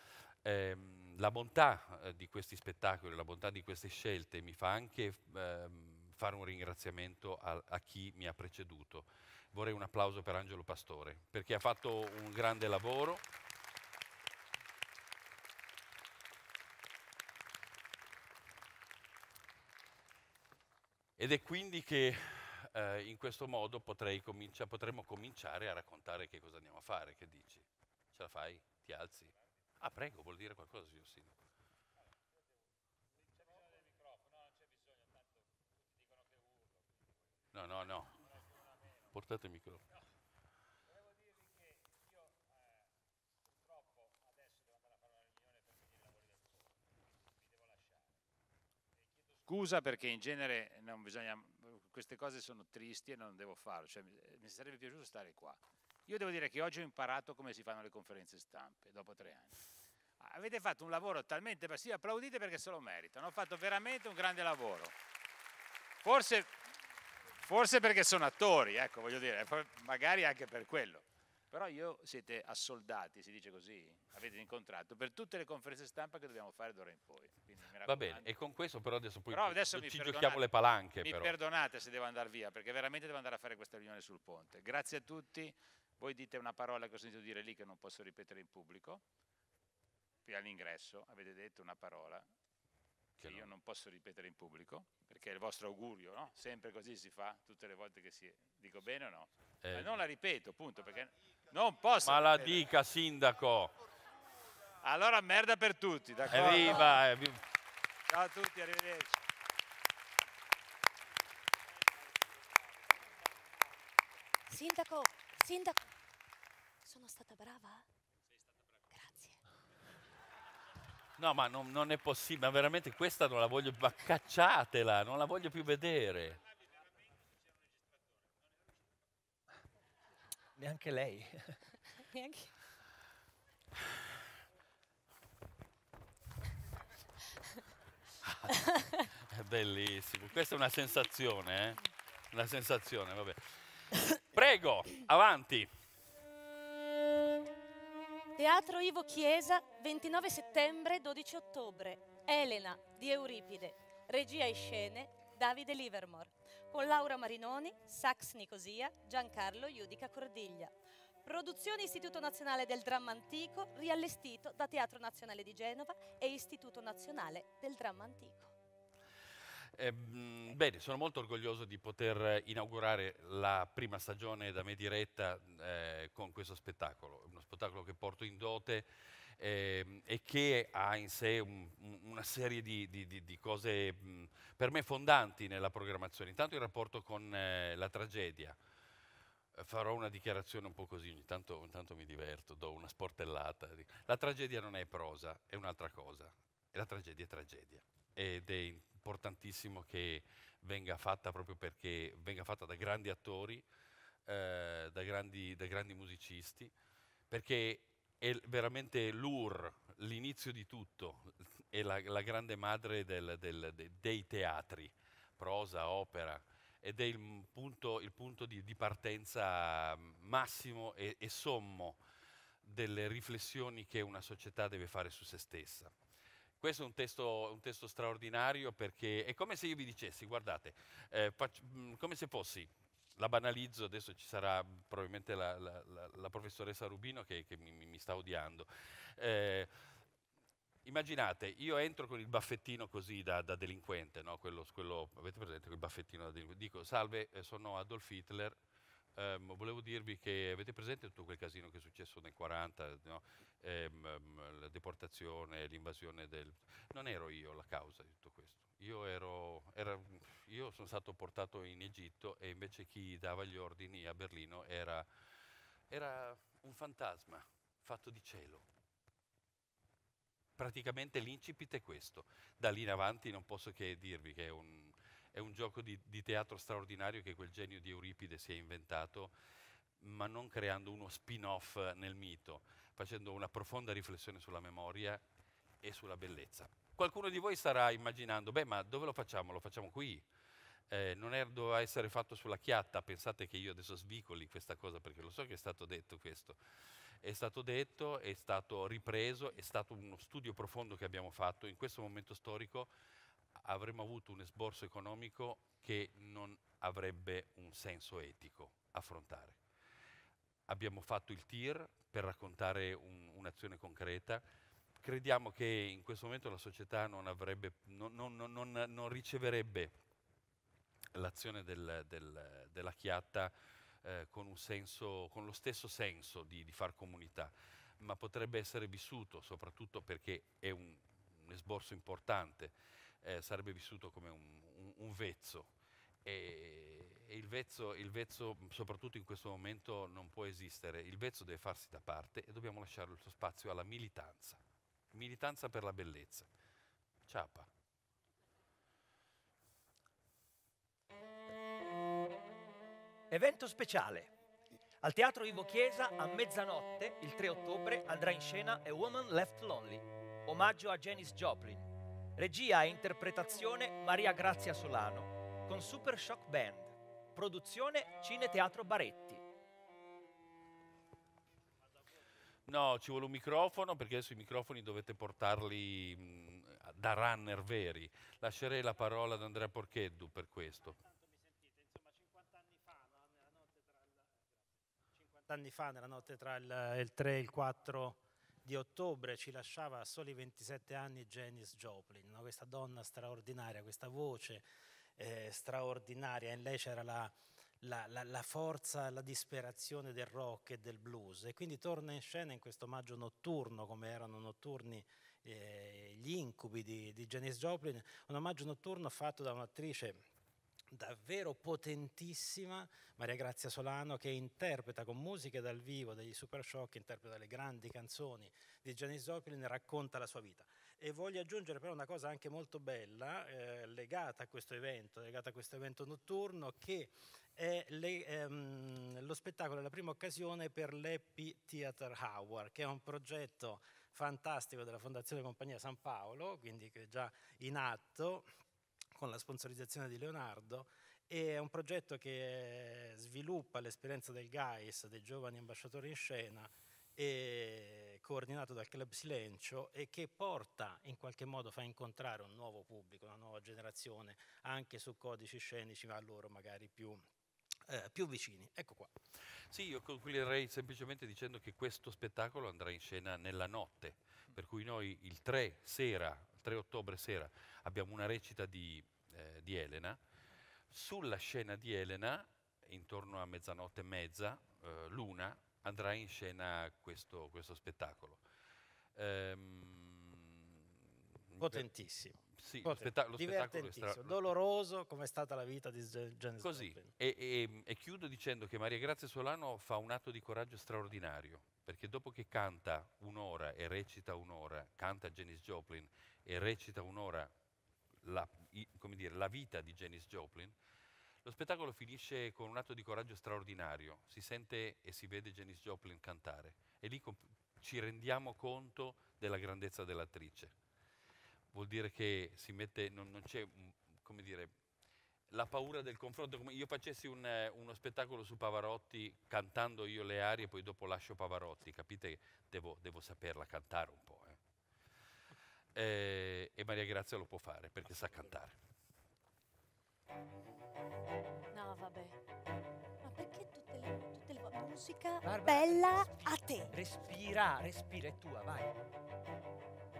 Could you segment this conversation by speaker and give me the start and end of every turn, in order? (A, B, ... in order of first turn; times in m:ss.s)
0:00.4-0:13.2 A
0:21.2-0:31.4 A
0:37.5-0:38.2 A
0:39.0-0:39.8 A
0:49.4-0:59.6 B
1:00.2-1:04.9 B
1:06.0-1:06.5 B
1:07.4-1:18.3 B
1:17.8-1:21.3 A
1:19.3-1:20.5 B
1:21.0-1:29.0 B
1:30.2-1:32.3 B
1:33.2-1:33.5 A
1:33.2-1:42.6 B
1:39.6-1:40.0 A
1:42.0-1:43.7 A
1:44.8-1:47.0 B
1:46.3-1:47.4 A
1:48.1-1:49.1 B
1:54.5-1:55.8 C
1:56.8-1:57.8 C
1:58.9-1:59.4 C
2:01.2-2:06.4 A
2:10.6-2:11.6 D
2:12.1-2:12.5 C
2:18.6-2:19.0 C
2:19.2-2:25.7 A
2:28.4-2:40.7 C
2:41.2-2:48.5 C
2:49.8-3:08.6 A
3:09.5-3:23.6 A
3:24.2-3:26.7 A
3:27.3-3:42.0 A
3:42.6-3:45.9 A
3:46.6-3:59.7 A
4:00.8-4:08.6 A
4:09.2-4:25.1 A
4:25.9-4:28.7 A
4:30.6-4:39.3 A
4:40.0-4:45.2 A
4:45.8-4:50.2 A
4:50.9-4:56.6 A
4:57.2-5:02.9 A
5:03.6-5:09.6 A
5:10.7-5:14.4 A
5:15.0-5:19.9 A
5:21.1-5:35.7 A
5:36.2-5:44.6 A
5:45.1-5:46.5 A
5:47.3-5:47.7 A
5:53.3-5:54.3 D
5:55.0-6:09.4 D
6:12.7-6:21.0 A
6:21.8-6:23.2 E
6:25.4-6:34.6 E
6:35.2-6:50.2 E
6:50.9-7:18.5 E
7:19.2-7:37.2 E
7:37.9-7:39.1 E
7:39.7-7:50.2 A
7:50.9-7:58.4 A
7:59.2-8:00.8 A
8:01.4-8:01.9 A
8:01.6-8:07.1 E
8:02.4-8:04.5 A
8:06.6-8:17.5 A
8:18.2-8:20.7 A
8:21.4-8:30.7 A
8:31.7-8:34.7 A
8:35.5-8:44.6 A
8:45.9-8:48.8 A
8:51.7-8:52.4 C
8:53.2-8:56.9 C
8:56.9-8:58.9 D